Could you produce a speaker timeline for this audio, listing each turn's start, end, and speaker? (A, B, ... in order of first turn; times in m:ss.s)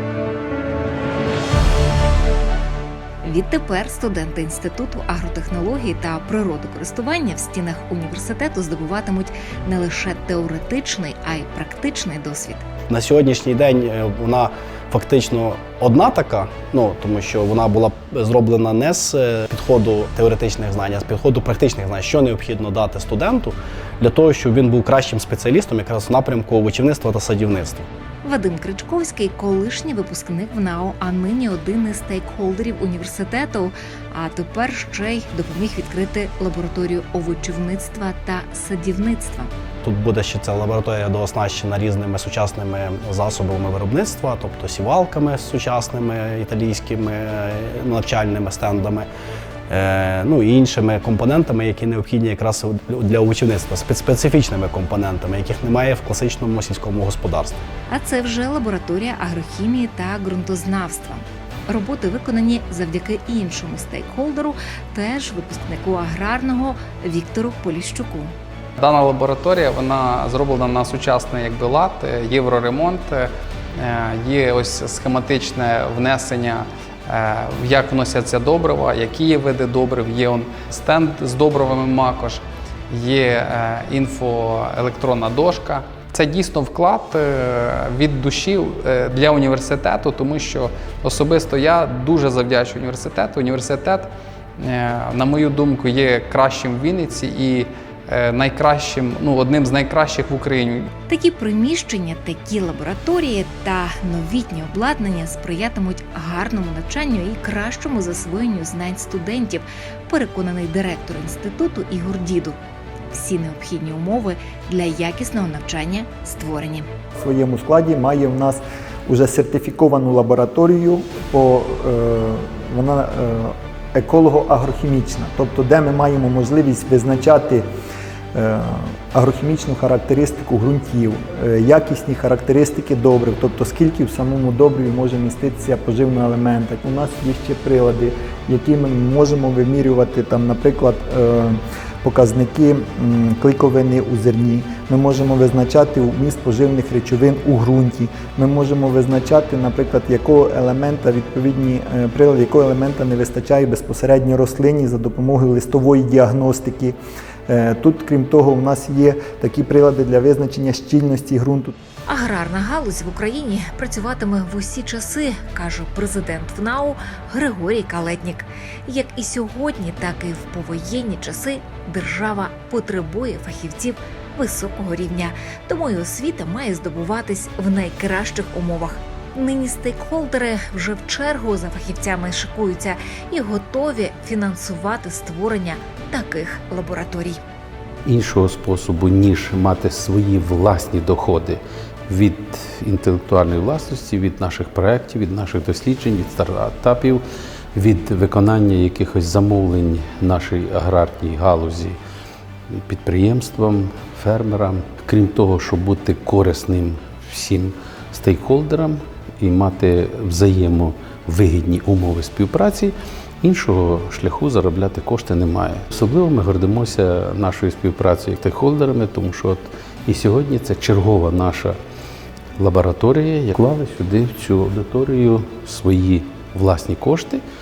0:03.2-0:12.6 A
0:12.9-0:27.9 B
0:28.2-0:39.5 A
0:39.8-0:49.1 B
0:49.7-0:57.6 B
0:57.9-1:08.3 A
1:08.8-1:40.9 C
1:41.1-1:52.6 A
1:53.1-1:56.9 A
1:57.2-2:07.6 D
2:08.3-2:36.9 D
2:37.5-2:41.7 D
2:42.0-3:07.4 A
3:08.0-3:17.2 E
3:17.7-3:22.0 E
3:22.8-3:41.8 E
3:42.6-3:47.4 E